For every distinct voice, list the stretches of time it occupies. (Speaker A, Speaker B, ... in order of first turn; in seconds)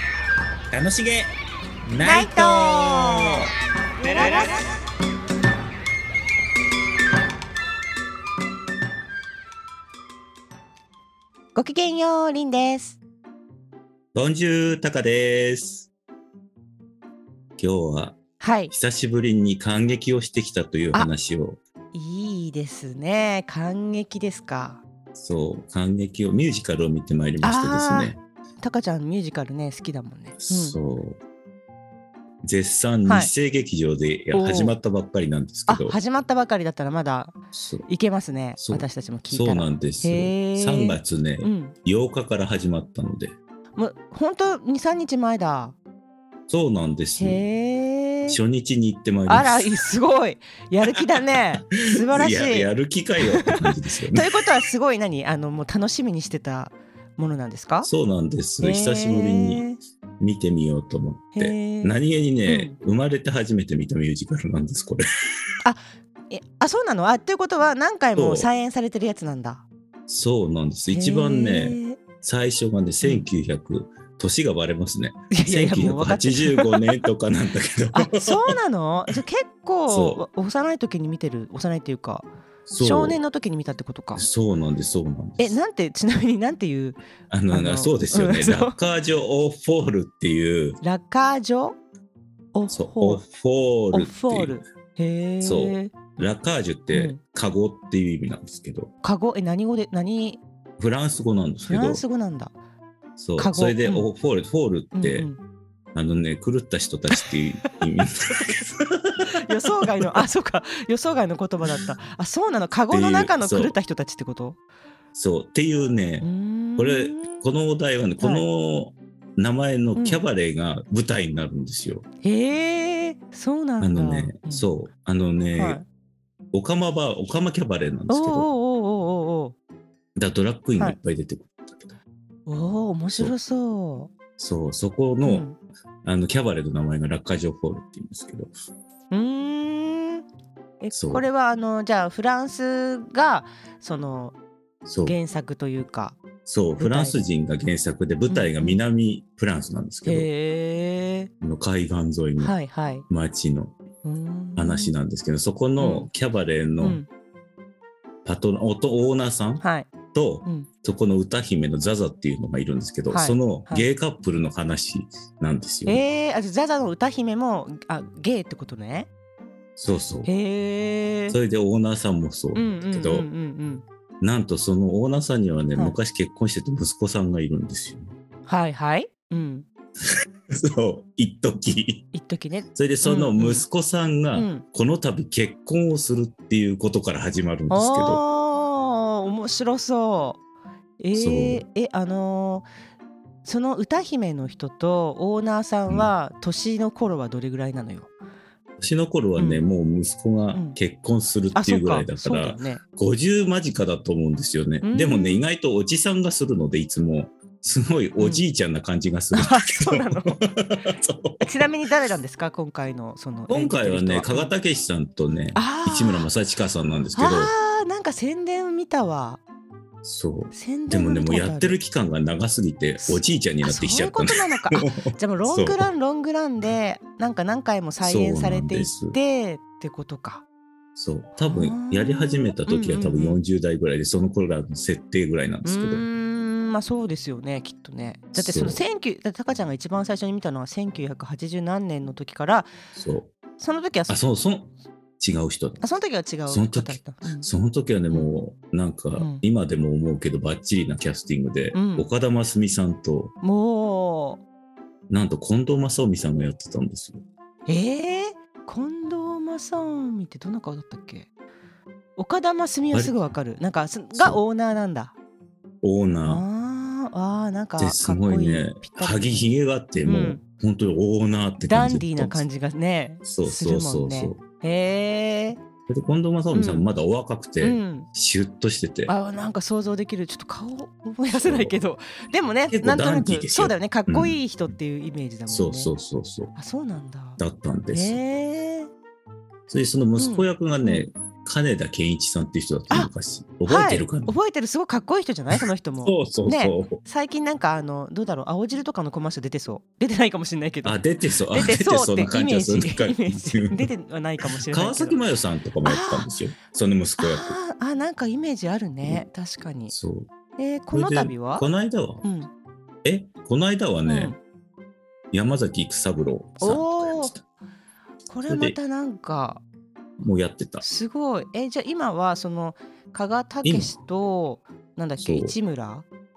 Speaker A: 0.7-1.3, 1.9-3.5, 14.1-15.9, 17.6-18.2, 18.7-21.6, 25.2-28.2, 30.4-31.2, 32.4-36.0, 37.5-37.9, 38.6-43.4, 46.5-47.4, 48.3-49.7, 51.8-54.3, 57.8-59.7, 60.2-65.0, 68.2-68.5, 70.1-78.5, 79.9-80.2, 82.7-83.2, 84.2-85.6, 87.3-90.8, 92.7-94.6, 95.4-98.9, 100.8-102.0, 103.2-105.3, 105.9-109.1, 112.9-113.8, 115.2-122.0, 123.8-125.8, 126.5-128.5, 130.2-132.0, 134.4-135.5, 136.1-138.5, 140.9-141.3, 144.9-145.2, 146.5-150.3, 151.4-152.6, 153.1-153.8, 154.6-157.0, 158.2-166.1, 169.8-170.3, 171.3-173.3, 174.2-178.1, 180.0-182.1, 182.8-188.2, 191.1-191.7, 198.8-211.7, 213.5-217.5, 220.0-225.9, 228.0-229.2, 231.0-236.1, 238.3-238.8, 242.9-243.3, 244.1-245.8, 246.5-253.3, 255.1-257.2, 262.9-263.2, 264.1-264.4, 265.8-266.4, 267.8-272.4, 273.2-274.4, 275.9-279.1, 281.3-281.8, 282.7-284.4, 285.5-286.5, 287.4-288.2, 289.7-294.3, 296.0-297.0, 300.9-303.9, 304.4-307.6, 309.9-310.3, 310.9-312.2, 313.0-314.3, 315.3-317.4, 318.5-318.8, 320.2-320.9, 323.6-323.9, 325.2-325.6
Speaker B: 2.0-3.5, 4.0-4.7, 11.6-13.0, 18.4-18.7, 21.9-24.8, 27.4-30.8, 33.1-33.3, 34.3-34.8, 35.7-37.3, 37.9-41.8, 43.8-45.8, 47.2-48.4, 49.3-52.7, 53.2-53.6, 54.1-57.9, 58.6-59.8, 61.4-62.8, 65.6-69.7, 70.9-72.0, 73.0-73.3, 75.3-77.0, 77.9-84.2, 85.4-87.0, 87.5-88.8, 90.8-91.8, 92.5-93.2, 93.9-96.0, 96.9-97.2, 99.0-100.4, 101.6-102.5, 103.4-104.1, 104.9-105.4, 107.1-107.7, 109.3-114.6, 116.2-117.4, 118.2-118.5, 120.0-120.2, 122.2-124.7, 125.6-125.8, 128.1-129.6, 132.5-134.1, 135.2-135.6, 139.1-140.2, 140.8-144.4, 145.0-146.2, 146.8-147.3, 148.3-148.8, 150.1-151.3, 152.4-153.1, 154.0-155.0, 155.8-156.1, 156.8-157.1, 159.6-159.9, 163.1-163.9, 165.9-169.1, 170.2-171.4, 172.5-173.8, 178.5-179.7, 182.1-183.7, 184.3-184.6, 187.7-190.4, 191.0-192.7, 193.4-198.1, 199.4-199.7, 200.5-200.8, 201.6-202.8, 204.8-205.4, 208.2-208.4, 209.3-210.4, 211.4-214.5, 215.6-216.3, 217.2-219.4, 220.5-221.8, 223.0-230.4, 231.4-233.4, 235.7-242.7, 243.6-244.2, 245.8-247.5, 248.1-248.4, 249.2-249.4, 251.7-252.1, 253.4-254.4, 257.7-261.3, 262.2-265.1, 266.2-269.5, 270.0-270.4, 271.6-275.6, 276.5-276.9, 277.6-278.1, 279.1-285.9, 286.6-287.4, 287.9-288.9, 290.2-291.1, 293.7-305.2, 305.8-306.3, 307.2-309.9, 310.6-311.7, 312.2-312.5, 314.1-314.4, 316.6-317.4, 318.3-319.6, 320.8-326.1